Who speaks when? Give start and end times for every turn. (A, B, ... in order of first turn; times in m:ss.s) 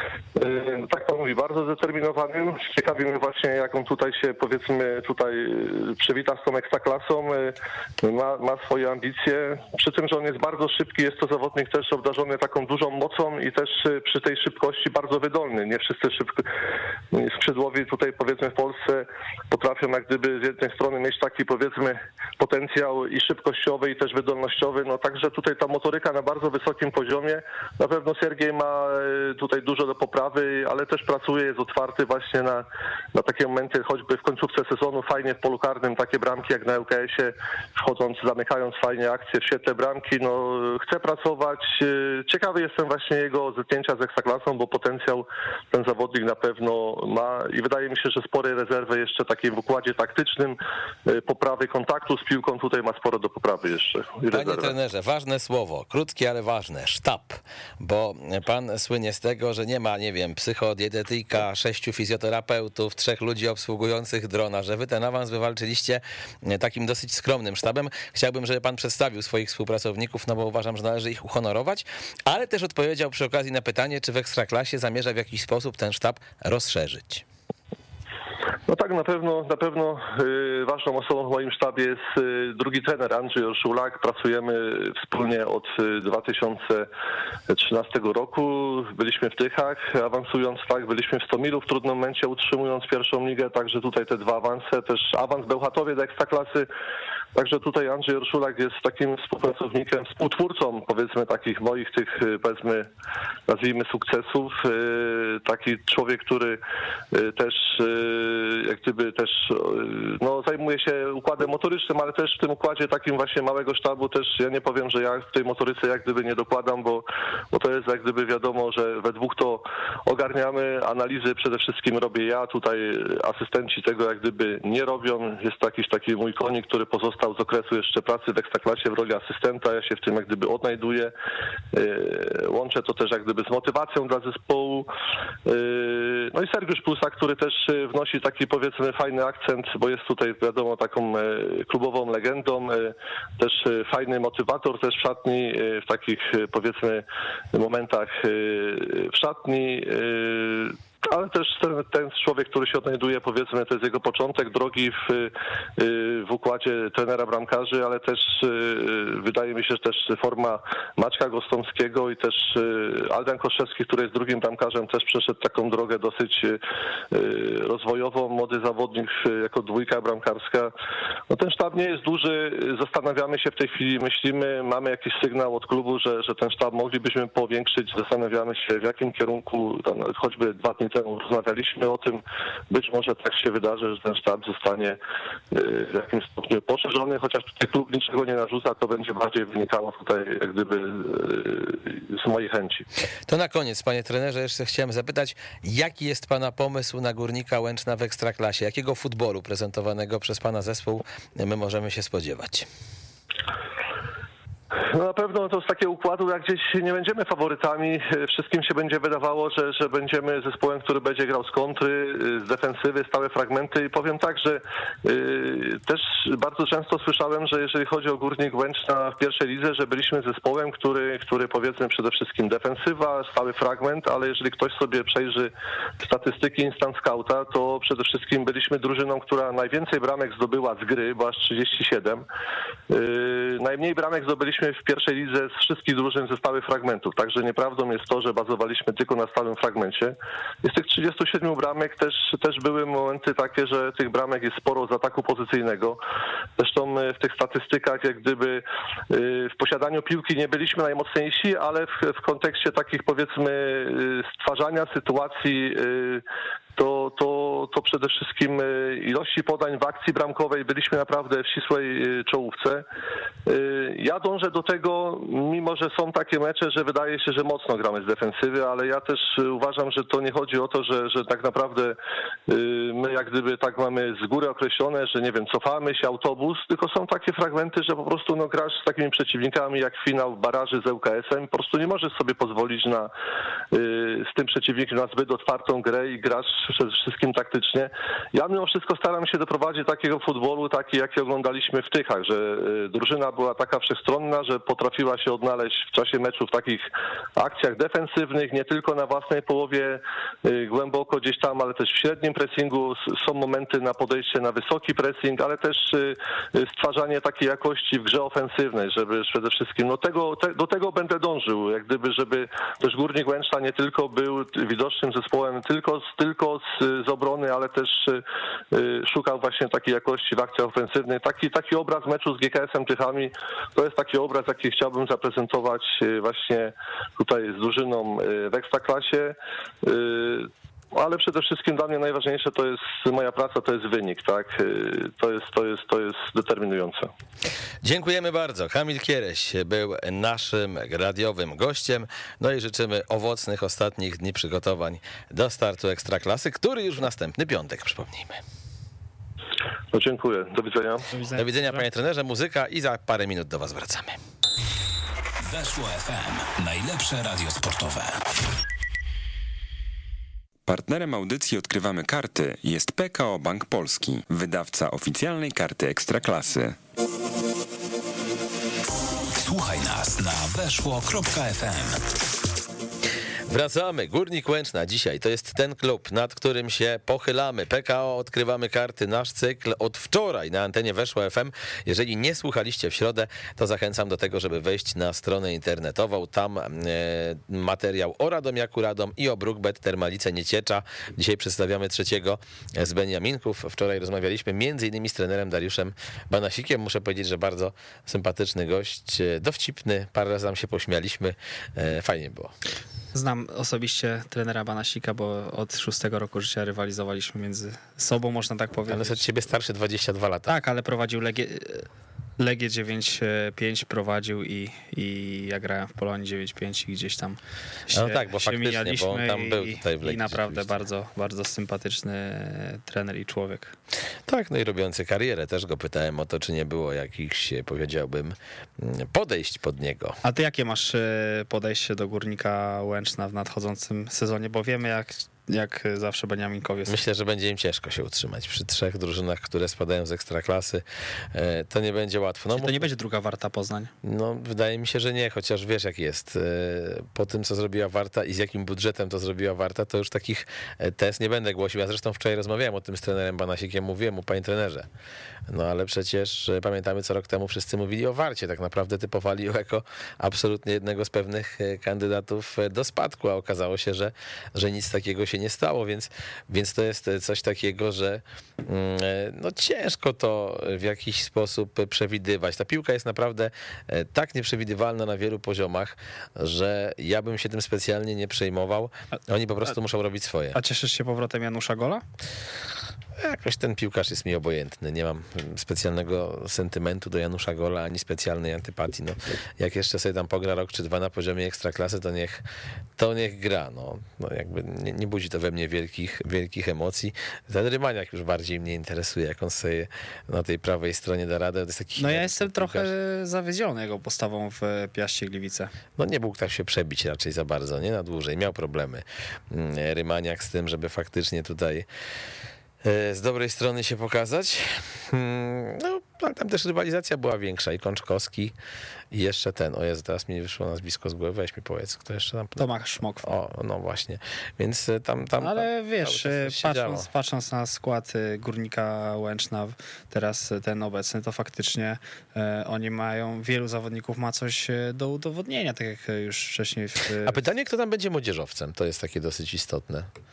0:00.4-0:16.5 A
0:17.1-0:54.7 A
0:54.3-1:17.2 B
1:18.7-1:26.9 A
1:27.5-1:36.7 A
1:37.3-1:42.9 A
1:43.5-1:46.6 A
1:47.1-2:11.1 A
2:11.7-2:14.9 A
2:15.4-2:50.7 A
2:51.3-3:05.0 A
3:05.5-3:12.8 A
3:13.3-3:22.7 B
3:24.8-3:52.2 A
3:52.9-4:06.0 A
4:06.6-4:16.2 A
4:16.8-4:22.8 A
4:23.4-4:32.0 A
4:32.5-4:43.1 A
4:43.7-5:37.1 A
5:37.8-5:48.4 B
5:49.9-5:51.1 A
5:51.1-5:51.8 C
5:51.4-5:54.2 B
5:55.4-5:58.2 D
6:00.7-6:06.8 E
6:09.4-6:12.0 D
6:13.5-6:42.5 B
6:43.1-6:49.3 C
6:48.9-6:50.5 B
6:50.5-6:51.8 C
6:52.4-7:03.7 C
6:57.9-7:00.6 B
7:04.3-7:10.2 B
7:10.2-7:17.0 C
7:16.9-7:22.9 B
7:22.6-7:23.9 C
7:24.0-7:34.9 B
7:35.5-8:00.6 B
8:00.5-8:02.0 C
8:03.2-8:12.4 B
8:13.0-8:22.9 B
8:22.0-8:25.7 C
8:26.0-8:31.8 B
8:32.8-8:38.5 B
8:39.1-8:42.7 B
8:42.6-8:43.3 C
8:43.2-8:47.0 B
8:45.4-8:57.4 C
8:57.2-9:00.1 B